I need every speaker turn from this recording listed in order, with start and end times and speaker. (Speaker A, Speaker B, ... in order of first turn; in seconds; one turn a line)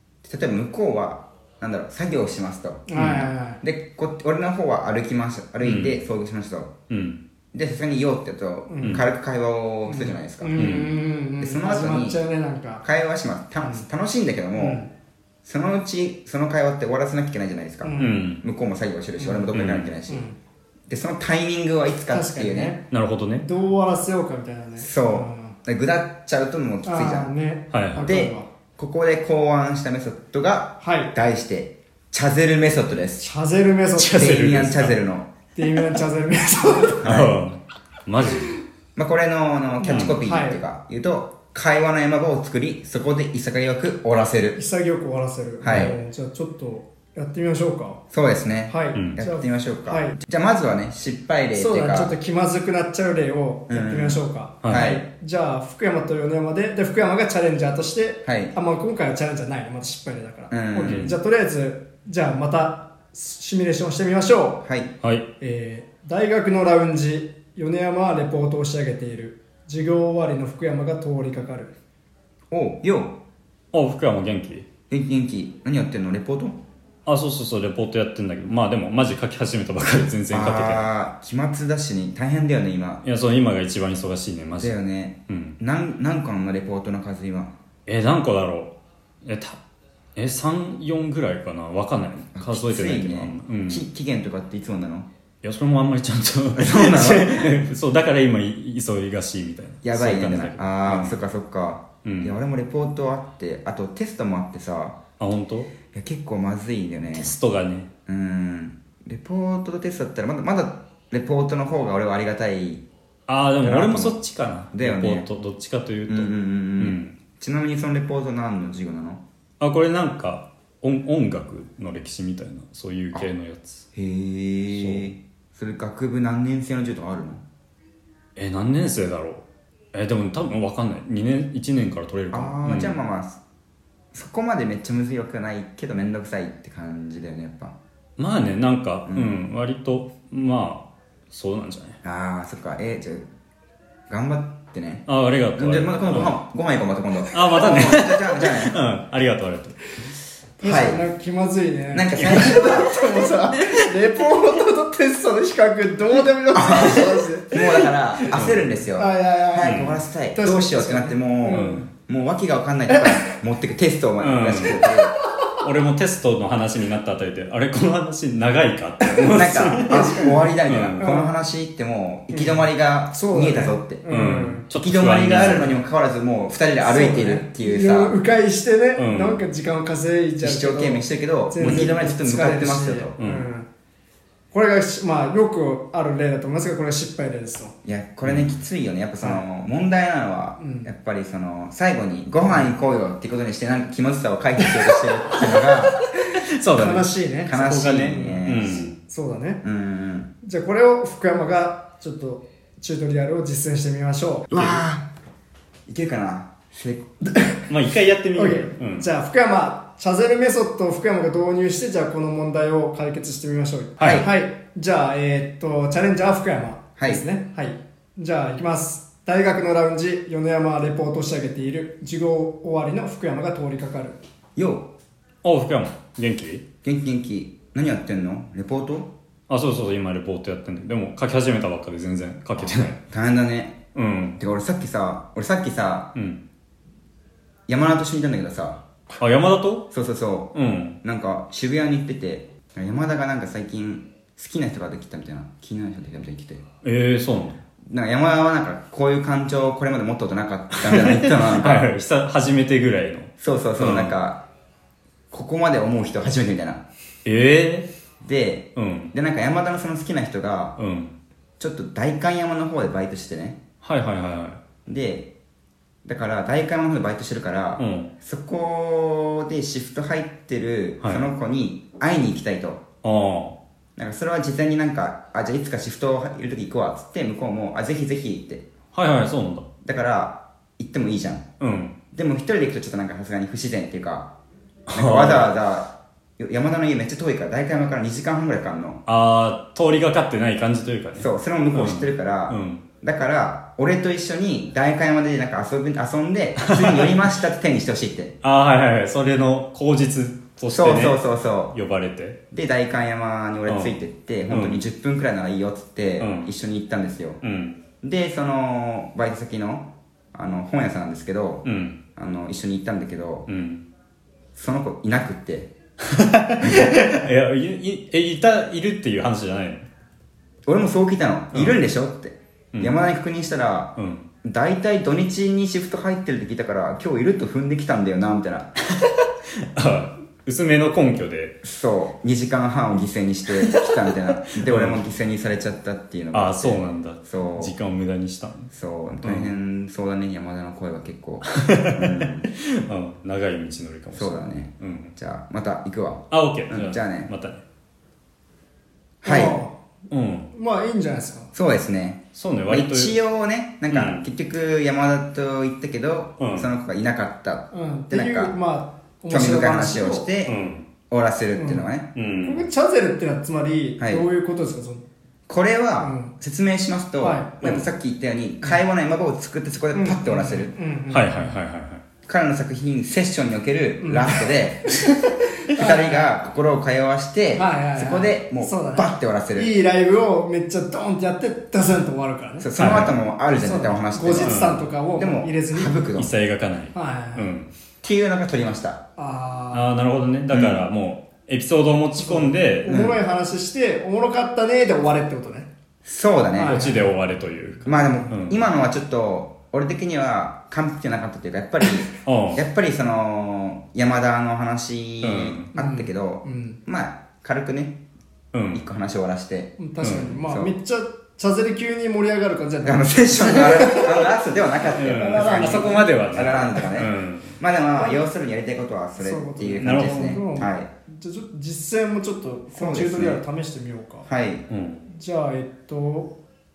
Speaker A: 0.2-2.9
Speaker B: 2.9-3.6
Speaker C: 2.9-3.3
Speaker A: 3.6-6.7
Speaker C: 5.6-6.0
Speaker C: 6.9-7.2
Speaker A: 7.5-10.8
Speaker B: 8.7-9.0
Speaker B: 9.8-12.8
Speaker C: 10.6-10.9
Speaker A: 11.4-12.2
Speaker A: 12.8-14.8
Speaker B: 13.6-13.8
Speaker B: 14.5-14.9
Speaker A: 15.4-20.2
Speaker B: 17.8-18.2
Speaker C: 18.0-18.4
Speaker B: 19.2-19.5
Speaker C: 19.5-19.9
Speaker B: 20.1-20.4
Speaker A: 20.9-22.8
Speaker B: 22.1-22.9
Speaker C: 22.9-23.4
Speaker B: 23.4-25.6
Speaker A: 24.8-27.3
Speaker B: 26.8-28.5
Speaker C: 27.7-28.0
Speaker A: 28.0-33.2
Speaker B: 30.8-31.1
Speaker B: 33.2-34.4
Speaker C: 34.0-35.0
Speaker A: 34.1-35.3
Speaker B: 35.5-37.1
Speaker A: 37.0-37.3
Speaker C: 37.0-38.5
Speaker A: 39.0-44.6
Speaker B: 39.8-40.6
Speaker C: 39.9-40.2
Speaker B: 44.5-48.0
Speaker A: 45.6-45.9
Speaker A: 48.1-52.1
Speaker B: 48.7-50.1
Speaker B: 51.5-64.6
Speaker A: 53.7-55.0
Speaker C: 54.6-54.9
Speaker A: 58.2-58.5
Speaker A: 60.5-61.1
Speaker C: 60.8-61.1
Speaker A: 64.6-64.9
Speaker B: 65.4-71.7
Speaker A: 72.5-73.1
Speaker C: 73.7-74.7
Speaker A: 74.9-76.6
Speaker C: 77.0-80.9
Speaker A: 80.3-83.0
Speaker C: 83.0-84.7
Speaker A: 84.6-87.5
Speaker C: 85.3-85.6
Speaker C: 87.8-89.6
Speaker C: 90.2-93.8
Speaker A: 92.3-95.1
Speaker C: 95.4-101.2
Speaker A: 96.5-97.6
Speaker A: 99.8-105.0
Speaker C: 102.0-102.4
Speaker C: 105.2-105.7
Speaker A: 105.9-107.3
Speaker C: 107.1-107.9
Speaker A: 108.1-112.8
Speaker C: 113.3-117.1
Speaker A: 113.6-114.2
Speaker A: 114.7-115.3
Speaker A: 116.1-119.2
Speaker C: 119.6-123.8
Speaker A: 123.9-127.4
Speaker C: 124.7-125.1
Speaker C: 128.3-133.0
Speaker A: 132.3-133.4
Speaker A: 134.1-137.7
Speaker C: 138.2-142.0
Speaker A: 139.1-139.3
Speaker A: 142.0-143.2
Speaker A: 144.1-148.8
Speaker C: 145.1-146.4
Speaker C: 147.3-149.9
Speaker B: 150.6-158.3
Speaker A: 150.6-151.0
Speaker A: 151.9-152.9
Speaker A: 156.5-165.1
Speaker C: 158.3-158.8
Speaker B: 159.0-161.8
Speaker C: 159.6-160.0
Speaker C: 161.5-161.8
Speaker B: 162.9-163.2
Speaker C: 164.2-164.9
Speaker C: 165.6-171.2
Speaker A: 169.1-174.0
Speaker B: 169.8-170.5
Speaker B: 171.0-171.3
Speaker B: 172.3-174.6
Speaker C: 174.1-175.8
Speaker A: 174.7-178.2
Speaker B: 176.8-183.7
Speaker C: 179.0-179.4
Speaker A: 180.4-183.2
Speaker C: 181.6-181.9
Speaker C: 183.2-183.5
Speaker B: 184.5-187.7
Speaker A: 187.8-195.9
Speaker C: 188.2-188.5
Speaker B: 190.6-190.9
Speaker C: 196.3-198.9
Speaker B: 196.7-199.6
Speaker A: 197.5-198.7
Speaker A: 199.6-200.3
Speaker B: 200.4-204.6
Speaker A: 204.5-205.0
Speaker C: 204.5-204.8
Speaker A: 205.9-207.1
Speaker B: 207.2-207.6
Speaker C: 207.7-209.1
Speaker B: 208.3-224.2
Speaker C: 214.0-214.2
Speaker A: 214.0-214.3
Speaker A: 217.0-217.2
Speaker A: 224.6-224.9
Speaker C: 225.4-226.6
Speaker A: 226.8-229.1
Speaker C: 229.5-233.0
Speaker A: 232.6-233.8
Speaker C: 233.9-234.4
Speaker A: 234.4-236.1
Speaker C: 236.1-236.4
Speaker A: 237.7-238.8
Speaker C: 239.2-239.8
Speaker A: 239.9-246.6
Speaker C: 240.5-241.0
Speaker C: 246.8-247.6
Speaker A: 247.9-251.9
Speaker C: 250.8-254.1
Speaker A: 253.4-254.4
Speaker A: 255.3-256.8
Speaker C: 257.2-257.9
Speaker A: 258.2-260.7
Speaker C: 258.8-259.1
Speaker C: 260.8-261.1
Speaker A: 261.6-263.6
Speaker C: 263.8-264.6
Speaker A: 264.9-265.3
Speaker A: 266.0-272.8
Speaker C: 267.8-268.1
Speaker C: 273.0-273.6
Speaker A: 274.0-278.6
Speaker C: 278.9-279.6
Speaker A: 279.8-281.4
Speaker C: 281.6-281.9
Speaker A: 282.1-284.3
Speaker C: 284.9-285.5
Speaker A: 284.9-289.0
Speaker C: 289.1-292.8
Speaker A: 291.2-298.3
Speaker C: 296.6-297.2
Speaker C: 298.4-301.2
Speaker A: 300.7-301.7
Speaker C: 301.7-302.4
Speaker A: 302.5-307.4
Speaker C: 303.7-303.9
Speaker C: 304.5-304.8
Speaker C: 306.2-306.5
Speaker C: 307.4-307.8
Speaker A: 308.0-311.6
Speaker C: 311.6-312.0
Speaker A: 312.1-313.4
Speaker C: 313.5-313.9
Speaker A: 314.5-315.7
Speaker C: 316.1-319.9
Speaker A: 316.6-317.1
Speaker A: 320.6-328.7
Speaker C: 321.5-321.8
Speaker C: 322.7-323.0
Speaker C: 324.0-324.3
Speaker C: 328.9-331.6
Speaker A: 331.6-337.8
Speaker C: 333.7-335.0
Speaker C: 336.3-338.7
Speaker A: 338.7-342.5
Speaker C: 339.2-339.5
Speaker C: 341.5-345.1
Speaker A: 344.1-347.3
Speaker C: 346.3-347.6
Speaker A: 349.2-349.6
Speaker B: 349.2-349.8
Speaker C: 350.1-350.5
Speaker B: 350.5-351.5
Speaker A: 351.5-358.5
Speaker C: 352.3-353.1
Speaker C: 353.9-354.3
Speaker C: 356.4-356.7
Speaker B: 357.7-360.3
Speaker A: 359.3-360.5
Speaker C: 360.4-360.8
Speaker A: 361.1-362.1
Speaker B: 361.6-361.9
Speaker C: 362.1-362.7
Speaker B: 362.4-365.0
Speaker A: 364.0-364.3
Speaker A: 365.5-370.7
Speaker B: 366.0-366.3
Speaker B: 367.2-367.8
Speaker B: 369.9-371.5
Speaker C: 371.1-372.0
Speaker A: 372.2-375.1
Speaker B: 374.0-374.4
Speaker B: 375.6-376.3
Speaker A: 375.7-379.7
Speaker B: 377.5-382.7
Speaker A: 382.6-384.6
Speaker C: 382.8-383.1
Speaker B: 383.6-386.1
Speaker C: 384.4-384.9
Speaker A: 385.1-386.3
Speaker C: 386.1-387.7
Speaker B: 386.9-387.5
Speaker A: 388.0-389.0
Speaker B: 389.2-389.9
Speaker C: 389.7-393.0
Speaker A: 390.5-390.9
Speaker B: 392.2-395.7
Speaker A: 392.8-393.2
Speaker A: 396.0-396.8
Speaker B: 396.5-397.1
Speaker C: 396.6-398.6
Speaker A: 397.9-408.0
Speaker C: 402.2-402.6
Speaker C: 405.2-405.7
Speaker B: 405.7-406.8
Speaker C: 408.5-408.8
Speaker A: 408.7-409.8
Speaker B: 409.8-414.3
Speaker C: 410.0-410.4
Speaker A: 410.4-410.7
Speaker A: 412.8-420.9
Speaker C: 414.9-417.6
Speaker B: 415.0-416.1
Speaker B: 418.0-418.2
Speaker B: 419.2-424.3
Speaker C: 419.8-420.4
Speaker A: 422.7-423.4
Speaker A: 424.3-424.6
Speaker C: 424.7-425.0
Speaker B: 425.1-426.3